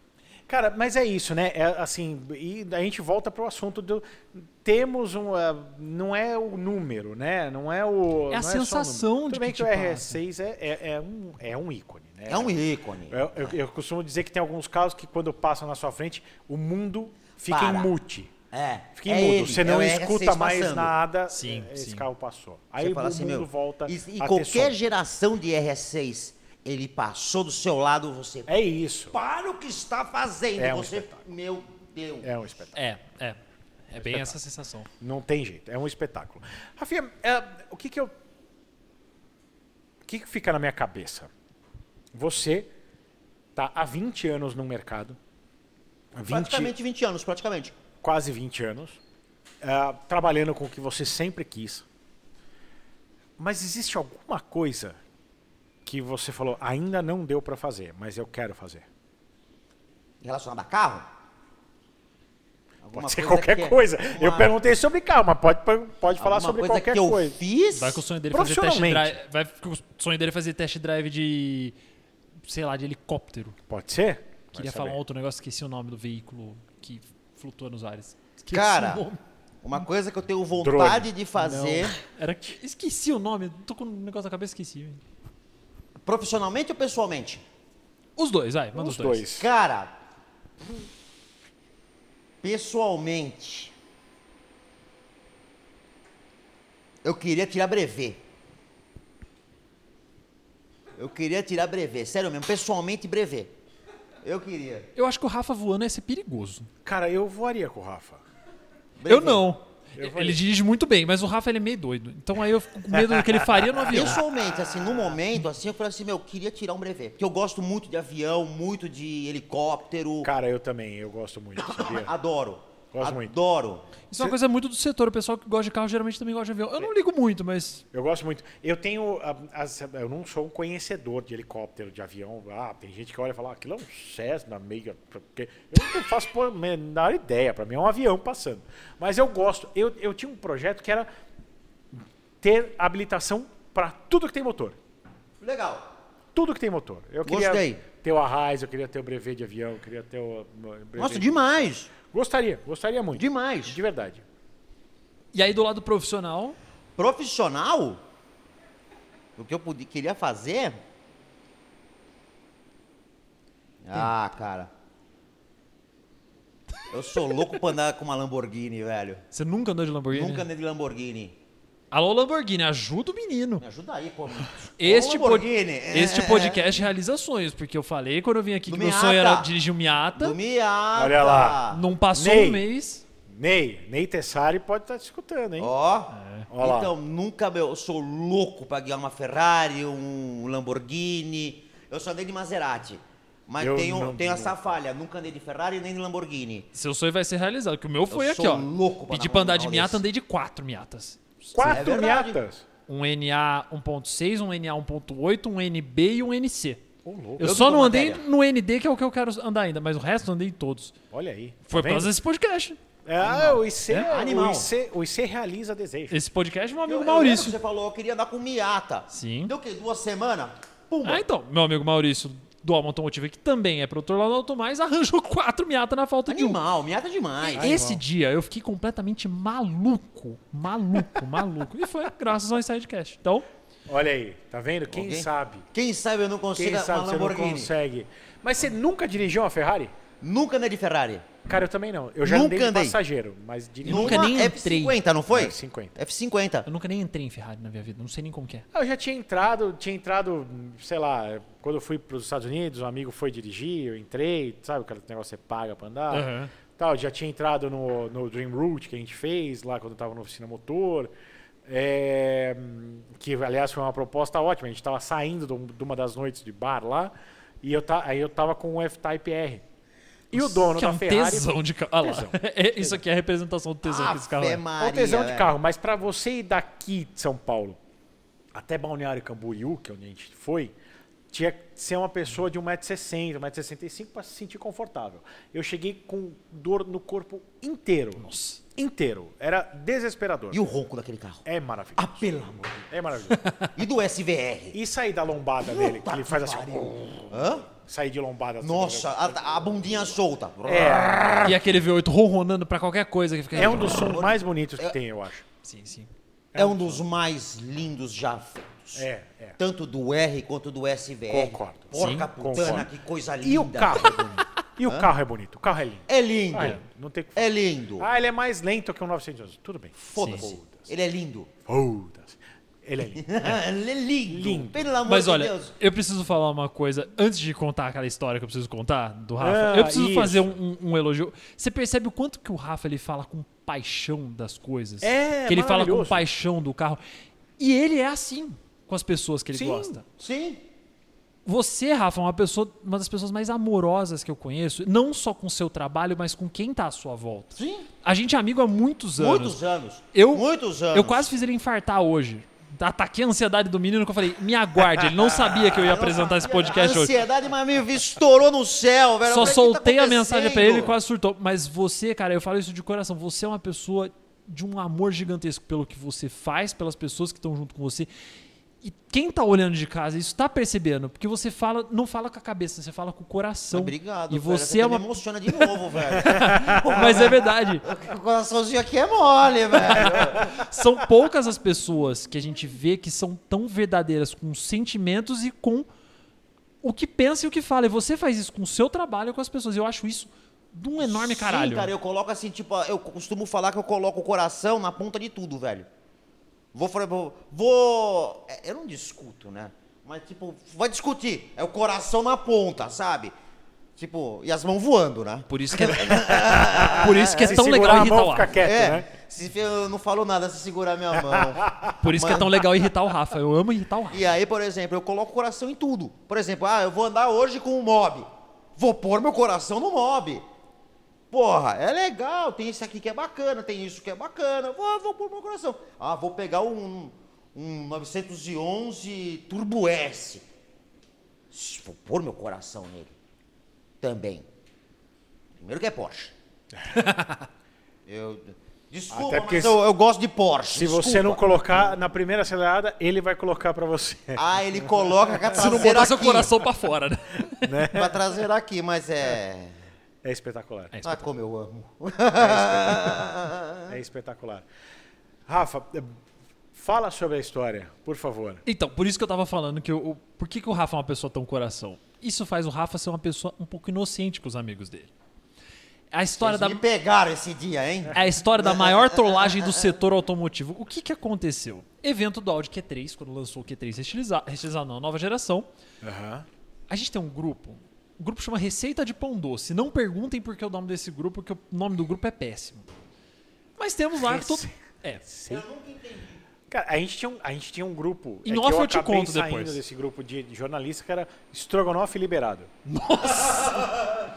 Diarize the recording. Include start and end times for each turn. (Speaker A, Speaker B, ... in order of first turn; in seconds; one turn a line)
Speaker A: 0.5-18.3
Speaker B: 8.3-10.2
Speaker C: 12.3-13.6
Speaker C: 17.5-17.9
Speaker C: 18.5-20.9
Speaker A: 18.9-24.8
Speaker B: 21.3-22.1
Speaker C: 22.8-28.5
Speaker A: 28.5-29.1
Speaker C: 29.1-32.3
Speaker A: 30.6-31.2
Speaker A: 32.2-32.8
Speaker B: 32.8-33.4
Speaker B: 33.9-34.9
Speaker A: 34.0-34.4
Speaker A: 35.0-38.1
Speaker A: 40.0-41.3
Speaker A: 42.1-42.7
Speaker A: 43.5-45.2
Speaker A: 46.1-46.8
Speaker C: 46.3-47.8
Speaker A: 48.0-49.0
Speaker A: 49.6-51.9
Speaker A: 53.4-55.0
Speaker A: 55.9-58.9
Speaker C: 60.2-61.1
Speaker C: 62.8-64.6
Speaker A: 62.9-67.4
Speaker C: 66.2-68.0
Speaker B: 67.7-71.8
Speaker A: 68.3-69.2
Speaker B: 72.5-73.6
Speaker A: 73.7-75.0
Speaker B: 74.5-79.2
Speaker C: 78.5-79.0
Speaker C: 79.6-82.0
Speaker A: 80.6-81.9
Speaker B: 82.0-85.0
Speaker C: 86.0-87.4
Speaker B: 88.2-89.2
Speaker A: 88.8-89.5
Speaker C: 89.4-89.9
Speaker C: 92.4-93.7
Speaker C: 97.0-98.2
Speaker C: 101.0-103.5
Speaker C: 104.2-104.9
Speaker B: 105.0-106.7
Speaker A: 106.8-108.2
Speaker C: 109.0-109.5
Speaker B: 109.1-114.2
Speaker A: 110.0-110.4
Speaker A: 112.9-113.2
Speaker C: 113.9-120.3
Speaker A: 120.2-122.1
Speaker C: 121.6-123.9
Speaker A: 122.9-123.3
Speaker B: 124.1-127.8
Speaker A: 127.9-141.1
Speaker A: 141.9-144.8
Speaker C: 145.4-145.9
Speaker A: 146.3-154.2
Speaker C: 147.2-147.8
Speaker C: 151.0-151.9
Speaker C: 153.1-153.8
Speaker B: 155.3-156.6
Speaker C: 157.0-158.0
Speaker C: 159.4-160.8
Speaker C: 163.8-164.7
Speaker C: 166.9-169.2
Speaker B: 169.3-170.5
Speaker C: 170.1-171.3
Speaker B: 171.9-173.6
Speaker C: 173.6-176.7
Speaker B: 174.8-180.4
Speaker C: 178.7-179.5
Speaker C: 180.2-181.8
Speaker A: 180.9-182.7
Speaker B: 181.7-183.0
Speaker A: 183.3-185.7
Speaker C: 185.6-196.7
Speaker B: 186.1-186.5
Speaker A: 186.5-186.9
Speaker A: 193.6-194.6
Speaker B: 196.7-201.8
Speaker C: 198.1-200.0
Speaker A: 201.5-202.7
Speaker C: 201.6-202.4
Speaker B: 202.9-206.8
Speaker A: 207.1-207.6
Speaker B: 207.4-211.0
Speaker C: 207.4-208.2
Speaker A: 211.1-212.1
Speaker B: 211.7-212.8
Speaker A: 213.1-216.2
Speaker C: 213.2-214.7
Speaker B: 216.1-217.6
Speaker C: 216.9-221.2
Speaker B: 219.1-219.5
Speaker B: 221.1-226.6
Speaker C: 226.3-227.8
Speaker B: 227.4-233.5
Speaker A: 227.6-228.0
Speaker A: 233.9-235.7
Speaker C: 234.9-237.7
Speaker A: 236.6-239.9
Speaker C: 240.2-241.3
Speaker A: 241.5-244.3
Speaker C: 242.2-243.0
Speaker C: 243.8-246.7
Speaker B: 243.8-245.0
Speaker A: 245.3-246.0
Speaker B: 246.7-248.7
Speaker A: 248.7-261.1
Speaker B: 256.1-256.5
Speaker A: 261.6-269.6
Speaker A: 270.3-273.0
Speaker B: 270.3-274.6
Speaker C: 273.9-275.5
Speaker A: 274.8-277.8
Speaker A: 278.5-280.7
Speaker A: 281.3-290.7
Speaker B: 288.2-288.6
Speaker C: 290.5-291.4
Speaker A: 291.4-293.4
Speaker C: 292.0-292.9
Speaker B: 293.3-293.7
Speaker C: 293.8-294.8
Speaker A: 294.7-300.0
Speaker C: 295.6-297.7
Speaker C: 298.6-301.6
Speaker A: 300.7-301.6
Speaker B: 301.4-304.1
Speaker A: 303.6-305.5
Speaker C: 303.6-304.9
Speaker B: 305.6-306.1
Speaker A: 306.5-307.0
Speaker C: 306.6-309.1
Speaker A: 308.9-309.6
Speaker C: 309.6-315.1
Speaker A: 311.3-312.9
Speaker B: 311.9-312.9
Speaker A: 313.4-320.9
Speaker C: 316.1-316.8
Speaker C: 317.4-318.1
Speaker C: 320.0-321.5
Speaker B: 320.2-320.5
Speaker A: 321.7-323.6
Speaker C: 323.1-325.7
Speaker A: 324.3-324.8
Speaker B: 325.1-337.0
Speaker A: 329.4-330.6
Speaker A: 335.0-336.3
Speaker B: 337.6-340.0
Speaker A: 339.5-340.0
Speaker C: 340.2-340.6
Speaker B: 341.5-349.6
Speaker C: 347.6-347.9
Speaker C: 349.2-351.3
Speaker B: 350.1-357.1
Speaker C: 355.5-360.9
Speaker B: 359.3-368.1
Speaker B: 368.8-377.8
Speaker C: 373.7-380.5
Speaker B: 379.9-385.9
Speaker B: 386.8-391.9
Speaker C: 391.0-395.9
Speaker C: 396.7-403.3
Speaker C: 404.0-407.6
Speaker B: 405.5-408.5
Speaker A: 405.9-409.1
Speaker C: 408.6-412.6
Speaker A: 411.2-412.0
Speaker B: 412.0-414.2
Speaker C: 414.1-420.4
Speaker C: 421.3-430.5
Speaker C: 431.5-433.1
Speaker C: 434.0-434.5
Speaker C: 435.6-436.3
Speaker B: 436.9-437.5
Speaker C: 438.1-441.4
Speaker A: 439.1-439.8
Speaker A: 440.7-444.4
Speaker C: 444.4-446.5
Speaker A: 445.3-445.7
Speaker B: 445.6-447.8
Speaker A: 447.6-448.2
Speaker C: 447.9-449.8
Speaker A: 450.2-451.0
Speaker B: 450.9-451.3
Speaker C: 451.0-453.9
Speaker A: 452.3-453.3
Speaker A: 453.9-454.6
Speaker A: 455.5-456.2
Speaker A: 456.7-458.6
Speaker B: 458.7-465.1
Speaker B: 466.1-466.8
Speaker C: 466.4-469.7
Speaker B: 468.1-475.7
Speaker A: 476.0-476.5
Speaker B: 476.9-482.9
Speaker B: 483.8-485.2
Speaker A: 484.2-485.6
Speaker C: 485.5-486.4
Speaker A: 486.7-492.7
Speaker B: 488.5-489.8
Speaker B: 492.9-494.1